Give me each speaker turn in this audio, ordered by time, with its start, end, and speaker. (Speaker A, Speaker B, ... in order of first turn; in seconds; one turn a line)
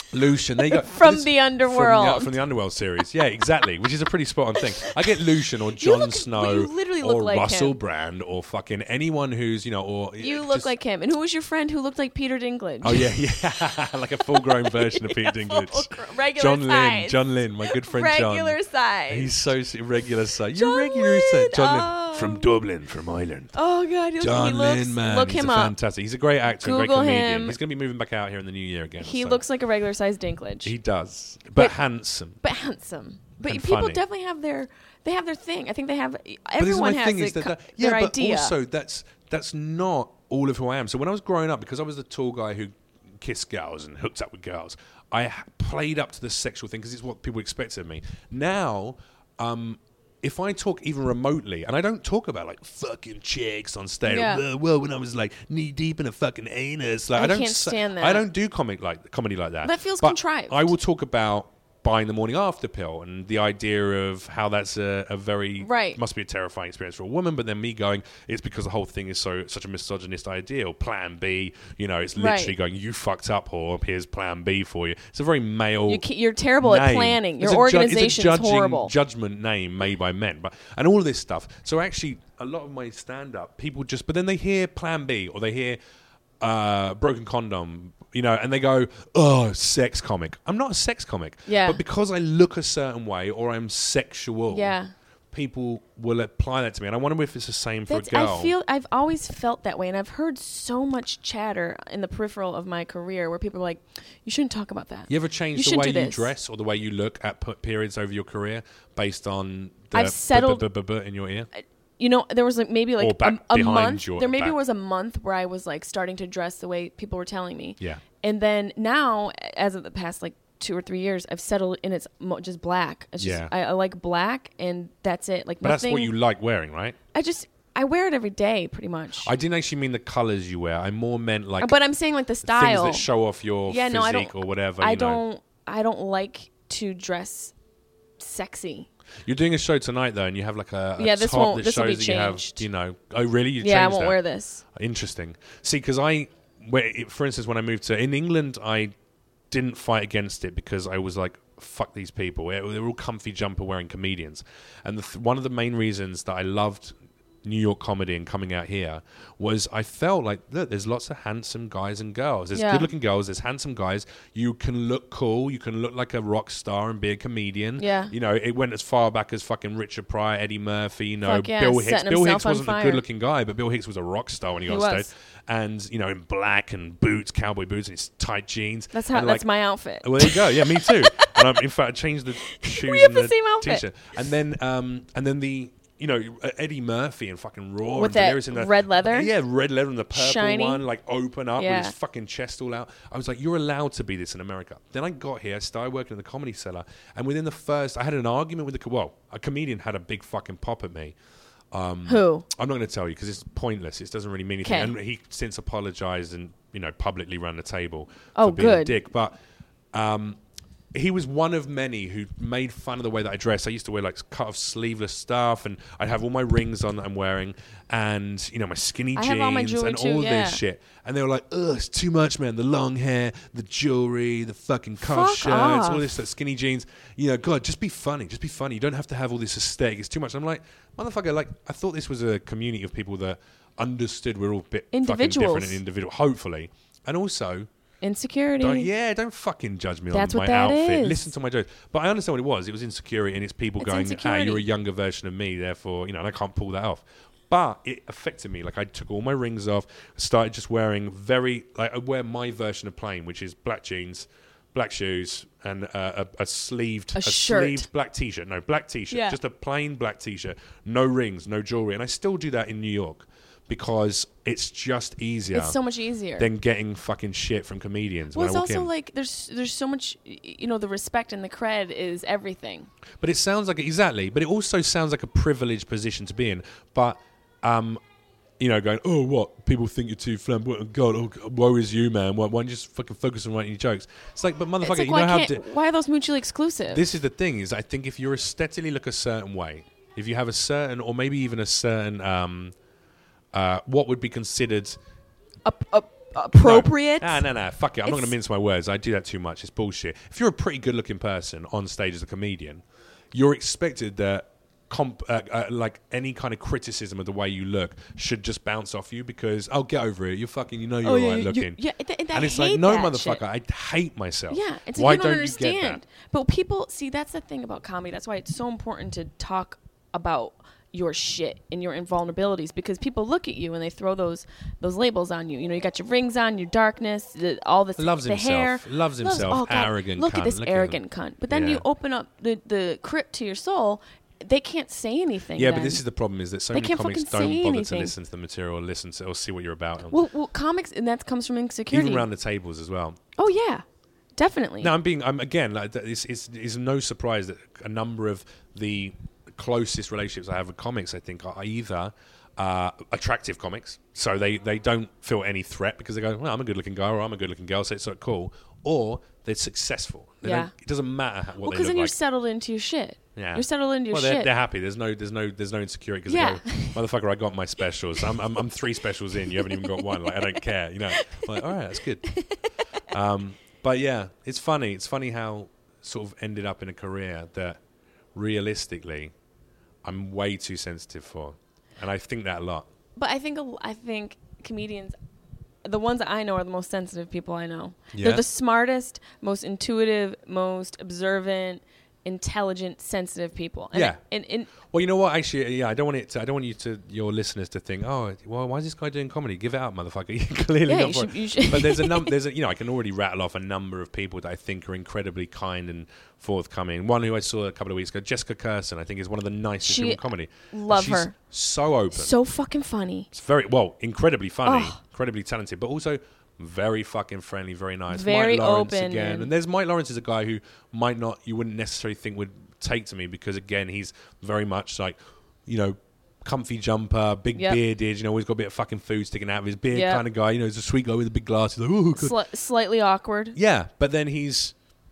Speaker A: 0.1-10.7
Speaker B: 0.6-2.4
Speaker B: 5.8-7.8
Speaker B: 10.2-13.5
Speaker A: 12.8-18.6
Speaker B: 14.2-19.3
Speaker A: 19.1-23.5
Speaker B: 20.5-22.5
Speaker B: 23.5-25.7
Speaker A: 24.2-29.4
Speaker B: 26.5-27.6
Speaker B: 29.0-30.7
Speaker A: 30.6-32.4
Speaker B: 32.4-38.6
Speaker A: 33.4-34.0
Speaker A: 36.6-76.0
Speaker B: 54.0-54.4
Speaker B: 57.1-58.2
Speaker B: 59.6-60.7
Speaker B: 65.6-66.0
Speaker B: 72.2-72.5
Speaker B: 75.9-78.9
Speaker A: 76.6-85.8
Speaker A: 86.4-94.8
Speaker B: 91.5-91.8
Speaker B: 94.5-94.9
Speaker A: 95.3-98.5
Speaker B: 97.9-106.3
Speaker A: 105.1-111.5
Speaker B: 109.9-110.7
Speaker B: 111.5-126.1
Speaker A: 113.0-114.6
Speaker A: 123.2-123.5
Speaker A: 125.6-127.0
Speaker B: 127.1-129.3
Speaker A: 129.2-131.8
Speaker B: 131.6-133.1
Speaker A: 132.4-135.2
Speaker B: 133.7-137.5
Speaker B: 138.2-138.9
Speaker A: 139.2-144.2
Speaker B: 141.0-142.6
Speaker B: 143.6-144.6
Speaker A: 144.7-148.9
Speaker A: 149.5-179.5
Speaker B: 162.5-162.9
Speaker B: 167.8-168.1
Speaker B: 171.2-173.0
Speaker B: 174.7-175.1
Speaker B: 178.9-181.4
Speaker A: 180.0-201.1
Speaker B: 182.4-183.8
Speaker B: 187.9-189.3
Speaker B: 190.1-190.8
Speaker B: 191.6-191.9
Speaker A: 201.7-209.3
Speaker B: 202.1-202.4
Speaker B: 204.6-204.9
Speaker B: 208.3-209.0
Speaker A: 209.9-210.4
Speaker A: 210.9-237.7
Speaker B: 219.1-220.6
Speaker B: 225.0-226.1
Speaker B: 234.9-235.8
Speaker B: 238.0-238.9
Speaker A: 238.6-265.8
Speaker B: 240.1-241.3
Speaker B: 243.8-244.7
Speaker B: 257.1-257.9
Speaker B: 259.1-259.4
Speaker B: 265.5-266.5
Speaker A: 266.4-268.9
Speaker B: 268.3-272.9
Speaker A: 273.2-278.0
Speaker A: 278.6-285.6
Speaker B: 284.8-287.0
Speaker A: 286.9-292.7
Speaker A: 293.5-295.0
Speaker B: 295.6-297.4
Speaker A: 296.5-311.8
Speaker B: 311.0-313.4
Speaker A: 312.3-316.0
Speaker B: 314.5-336.0
Speaker A: 328.0-331.8
Speaker A: 335.6-340.2
Speaker B: 336.7-338.1
Speaker B: 340.1-342.3
Speaker A: 341.9-343.2
Speaker B: 343.4-343.8
Speaker B: 344.4-344.9
Speaker A: 344.8-362.1
Speaker B: 360.4-360.7
Speaker B: 361.6-364.5
Speaker A: 363.4-372.4
Speaker B: 366.3-367.0
Speaker B: 369.5-370.6
Speaker B: 371.1-371.5
Speaker B: 372.3-372.6
Speaker A: 373.1-377.8
Speaker A: 378.3-379.3
Speaker A: 380.0-382.9
Speaker B: 383.1-385.1
Speaker B: 385.8-394.7
Speaker A: 388.1-388.4
Speaker A: 393.9-412.3
Speaker B: 400.9-402.3
Speaker B: 409.8-411.3
Speaker B: 412.1-413.3
Speaker A: 413.3-432.4
Speaker B: 414.6-415.0
Speaker B: 418.1-419.5
Speaker B: 429.9-430.2
Speaker B: 432.1-433.6
Speaker A: 433.5-434.7